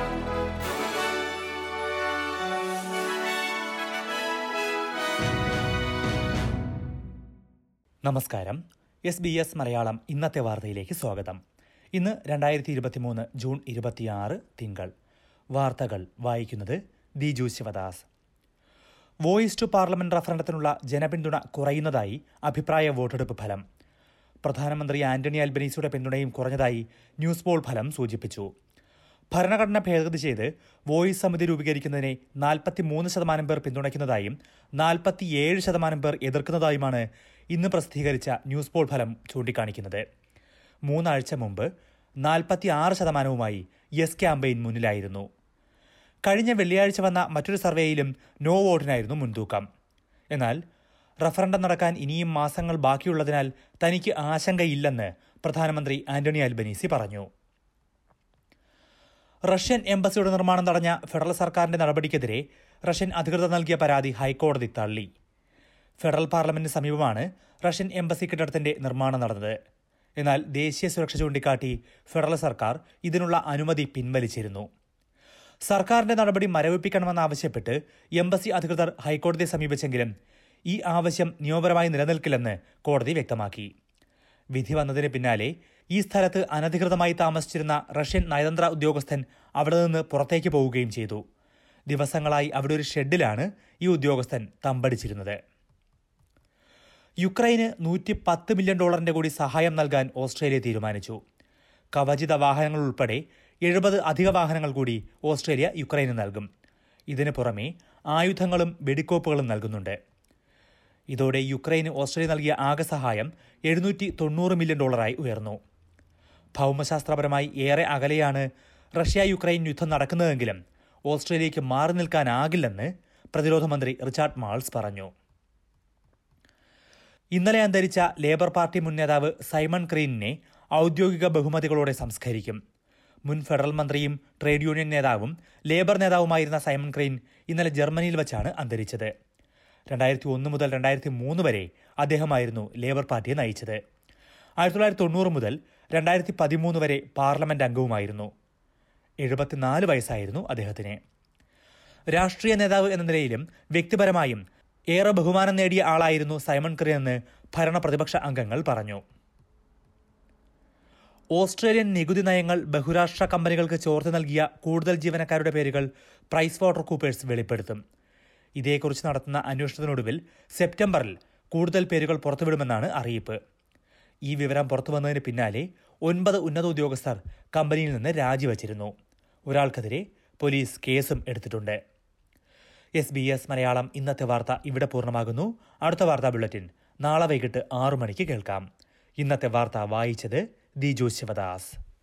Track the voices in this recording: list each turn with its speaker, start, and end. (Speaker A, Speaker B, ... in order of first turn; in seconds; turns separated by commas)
Speaker A: 8.1-11.4, Speaker A: 12.0-14.9, Speaker A: 15.6-18.1, Speaker A: 19.3-23.6, Speaker A: 24.4-28.5, Speaker A: 29.3-40.0, Speaker A: 40.9-41.7, Speaker A: 42.2-45.3, Speaker A: 46.3-49.6, Speaker A: 50.3-50.6, Speaker A: 51.2-57.3, Speaker A: 59.5-65.1, Speaker A: 66.0-69.6, Speaker A: 70.2-74.7, Speaker A: 75.7-80.1, Speaker A: 80.7-83.7, Speaker A: 84.5-91.2, Speaker A: 91.9-95.4, Speaker A: 97.2-101.2, Speaker A: 102.0-106.5, Speaker A: 107.1-110.0, Speaker A: 111.1-115.6, Speaker A: 116.6-118.5, Speaker A: 119.0-125.1, Speaker A: 127.4-132.6, Speaker A: 133.3-139.1, Speaker A: 139.9-143.8, Speaker A: 144.6-148.3, Speaker A: 149.2-151.0, Speaker A: 152.1-154.4, Speaker A: 154.9-159.0, Speaker A: 161.3-167.8, Speaker A: 168.6-173.4, Speaker A: 174.3-178.9, Speaker A: 179.5-181.8, Speaker A: 183.0-188.6, Speaker A: 189.2-191.8